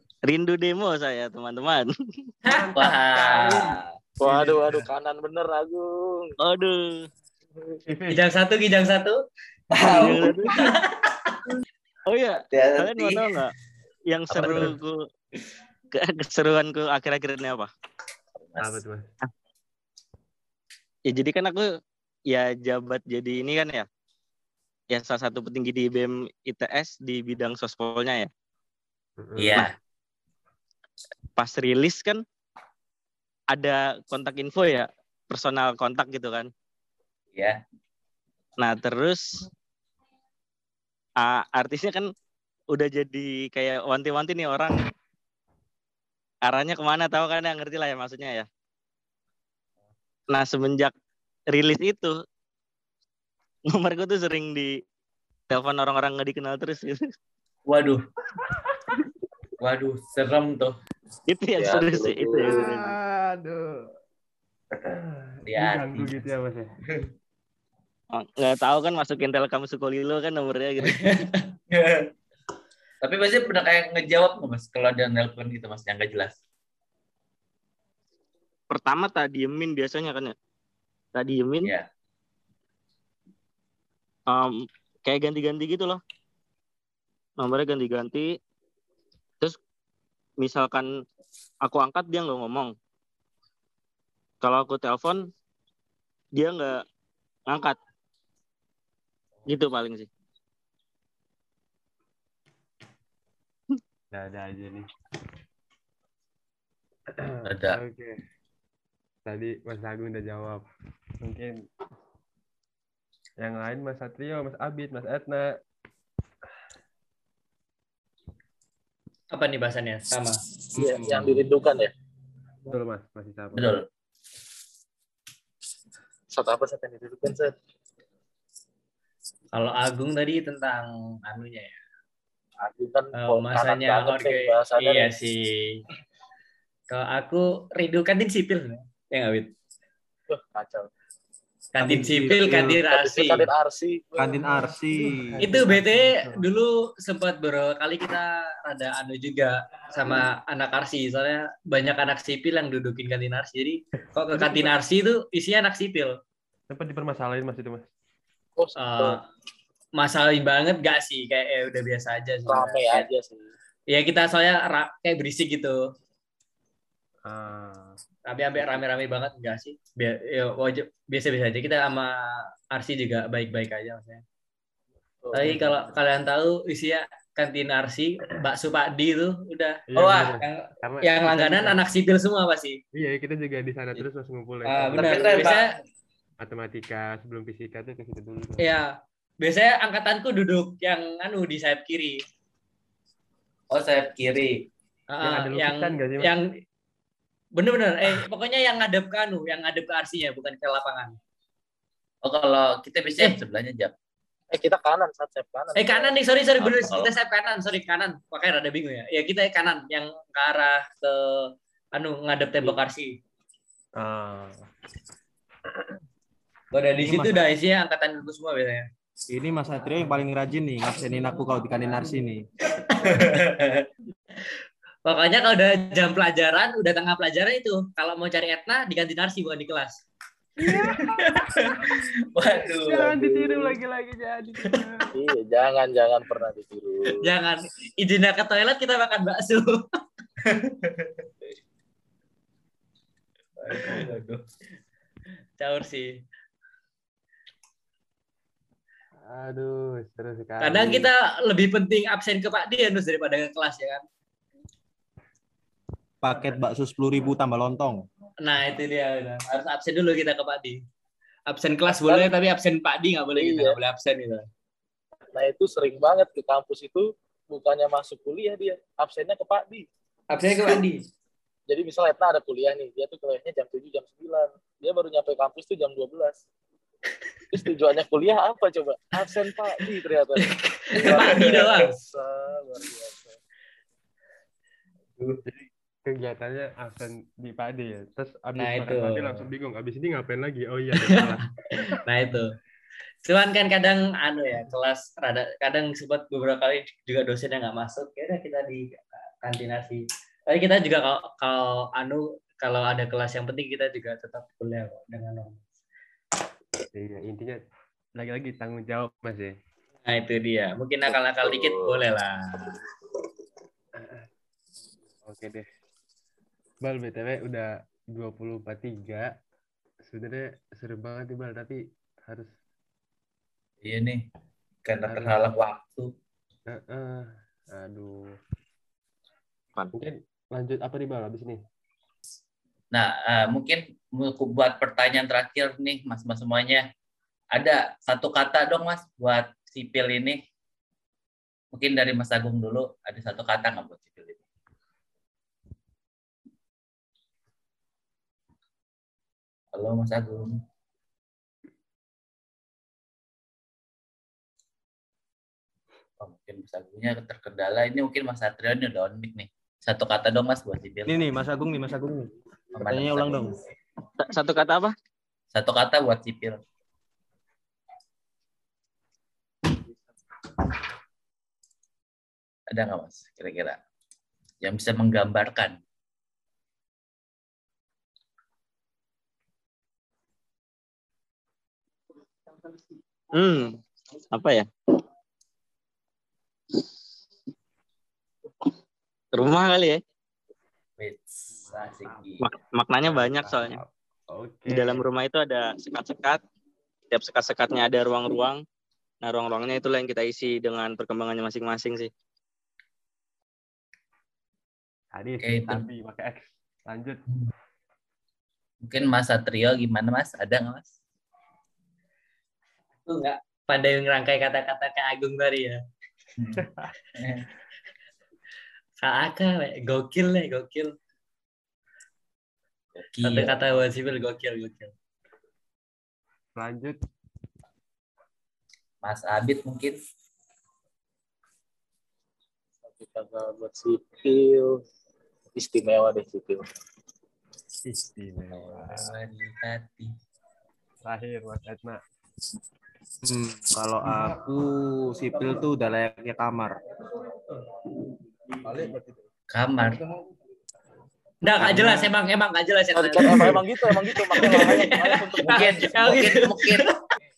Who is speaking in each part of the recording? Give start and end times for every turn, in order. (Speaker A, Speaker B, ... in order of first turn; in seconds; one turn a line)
Speaker A: 0.3-1.9
Speaker B: 2.5-2.9
Speaker C: 2.5-3.6
Speaker D: 2.7-3.9
Speaker E: 4.2-6.3
Speaker B: 4.2-4.8
Speaker A: 6.4-6.7
Speaker B: 7.9-8.2
Speaker C: 8.1-9.2
Speaker D: 9.7-10.8
Speaker A: 9.8-10.6
Speaker A: 12.1-13.5
Speaker D: 12.5-13.4
Speaker A: 14.1-15.0
Speaker D: 14.3-14.7
Speaker A: 15.9-17.7
Speaker D: 18.4-18.8
Speaker B: 18.6-19.1
Speaker A: 21.1-21.7
Speaker A: 22.3-23.9
Speaker A: 24.9-28.3
Speaker B: 29.2-29.6
Speaker D: 29.4-29.7
Speaker A: 31.4-32.2
Speaker A: 33.5-36.5
Speaker D: 37.3-37.6
Speaker A: 38.6-39.2
Speaker A: 41.2-42.1
Speaker A: 42.7-44.7
Speaker A: 46.5-48.5
Speaker A: 50.3-50.9
Speaker A: 51.5-52.1
Speaker A: 53.7-54.7
Speaker A: 55.5-57.0
Speaker D: 57.7-58.0
Speaker B: 58.5-58.8
Speaker D: 59.6-60.7
Speaker A: 61.3-62.7
Speaker E: 61.6-62.8
Speaker B: 62.4-63.9
Speaker B: 64.9-66.7
Speaker D: 65.5-66.2
Speaker A: 68.1-71.0
Speaker C: 70.8-71.4
Speaker D: 71.7-72.1
Speaker D: 73.0-76.4
Speaker A: 78.7-80.3
Speaker A: 81.1-81.7
Speaker A: 84.3-86.0
Speaker A: 87.4-88.3
Speaker A: 90.4-90.9
Speaker A: 91.6-92.7
Speaker A: 94.4-95.3
Speaker A: 96.4-96.8
Speaker A: 97.5-97.8
Speaker A: 99.5-100.1
Speaker B: 104.1-104.9
Speaker B: 107.2-108.2
Speaker D: 107.4-107.8
Speaker B: 109.2-110.6
Speaker B: 111.2-111.7
Speaker B: 113.4-115.5
Speaker C: 119.3-120.4
Speaker E: 120.7-121.9
Speaker B: 121.0-121.4
Speaker B: 122.7-123.8
Speaker D: 123.5-123.8
Speaker E: 126.3-127.5
Speaker C: 129.5-131.8
Speaker E: 132.6-135.2
Speaker C: 133.2-135.8
Speaker C: 136.9-139.5
Speaker E: 140.3-140.9
Speaker C: 141.7-143.5
Speaker F: 141.8-142.8
Speaker E: 142.9-144.7
Speaker F: 144.2-145.2
Speaker B: 145.2-146.4
Speaker C: 145.4-156.2
Speaker B: 154.3-154.7
Speaker B: 156.7-157.9
Speaker E: 158.6-159.2
Speaker C: 158.8-159.2
Speaker C: 160.0-163.1
Speaker E: 162.5-163.4
Speaker C: 163.9-165.8
Speaker B: 167.2-167.9
Speaker C: 168.3-174.2
Speaker E: 175.2-175.9
Speaker C: 175.3-182.8
Speaker B: 179.9-181.8
Speaker D: 179.9-180.3
Speaker B: 182.9-185.5
Speaker C: 184.7-185.6
Speaker D: 184.9-185.7
Speaker B: 186.4-188.7
Speaker C: 188.6-188.9
Speaker C: 189.4-192.2
Speaker D: 193.7-194.7
Speaker C: 195.1-196.4
Speaker B: 195.2-196.3
Speaker C: 197.6-201.2
Speaker D: 202.2-203.9
Speaker E: 204.5-206.7
Speaker C: 205.8-213.2
Speaker D: 206.6-207.1
Speaker B: 214.0-214.7
Speaker C: 216.7-218.9
Speaker F: 217.0-217.4
Speaker F: 219.3-222.4
Speaker C: 222.8-223.2
Speaker D: 223.0-223.9
Speaker C: 225.1-230.0
Speaker B: 230.6-232.0
Speaker D: 230.8-233.2
Speaker B: 232.8-235.1
Speaker E: 233.2-233.8
Speaker E: 235.1-237.3
Speaker C: 237.2-239.8
Speaker D: 240.4-241.2
Speaker D: 243.6-244.4
Speaker C: 243.8-244.1
Speaker C: 245.6-246.1
Speaker B: 249.3-251.1
Speaker C: 250.6-254.0
Speaker F: 256.2-258.0
Speaker C: 258.4-260.8
Speaker C: 261.5-264.4
Speaker E: 261.9-262.3
Speaker E: 263.4-263.8
Speaker E: 265.3-269.9
Speaker C: 270.3-271.0
Speaker E: 271.7-276.4
Speaker E: 277.5-283.4
Speaker C: 280.4-281.9
Speaker D: 280.9-281.7
Speaker B: 285.4-291.4
Speaker C: 288.6-289.4
Speaker C: 291.0-292.5
Speaker C: 293.2-305.6
Speaker B: 306.9-307.6
Speaker B: 308.2-309.5
Speaker C: 310.1-312.8
Speaker E: 311.1-312.0
Speaker B: 313.9-314.2
Speaker B: 315.2-315.6
Speaker B: 316.8-319.3
Speaker B: 320.1-322.5
Speaker D: 323.8-324.2
Speaker D: 324.8-326.1
Speaker B: 325.1-325.4
Speaker B: 326.7-328.2
Speaker B: 329.9-331.6
Speaker D: 332.9-336.8
Speaker D: 337.5-340.4
Speaker D: 341.7-344.4
Speaker D: 349.7-350.6
Speaker D: 356.2-361.2
Speaker F: 361.1-363.5
Speaker D: 362.8-363.5
Speaker A: 364.3-364.9
Speaker D: 365.5-366.6
Speaker D: 372.7-373.8
Speaker D: 374.6-375.8
Speaker A: 383.3-383.8
Speaker A: 384.3-384.6
Speaker A: 389.3-390.0
Speaker D: 391.0-392.4
Speaker B: 391.6-392.2
Speaker A: 392.4-393.8
Speaker B: 393.0-395.1
Speaker A: 394.7-396.4
Speaker A: 397.1-398.6
Speaker A: 399.2-402.1
Speaker B: 405.1-407.2
Speaker D: 405.4-405.9
Speaker D: 408.8-410.9
Speaker C: 413.1-415.8
Speaker D: 416.4-417.4
Speaker B: 416.6-416.9
Speaker C: 419.0-420.9
Speaker D: 423.0-423.9
Speaker C: 423.2-424.9
Speaker B: 426.6-427.0
Speaker D: 429.0-430.0
Speaker E: 432.9-434.8
Speaker E: 435.6-436.6
Speaker B: 437.8-439.1
Speaker D: 438.5-440.1
Speaker B: 441.0-442.0
Speaker F: 443.2-446.8
Speaker E: 448.6-449.2
Speaker D: 449.5-450.0
Speaker C: 451.4-456.9
Speaker F: 451.6-452.1
Speaker E: 452.9-456.1
Speaker D: 455.4-456.9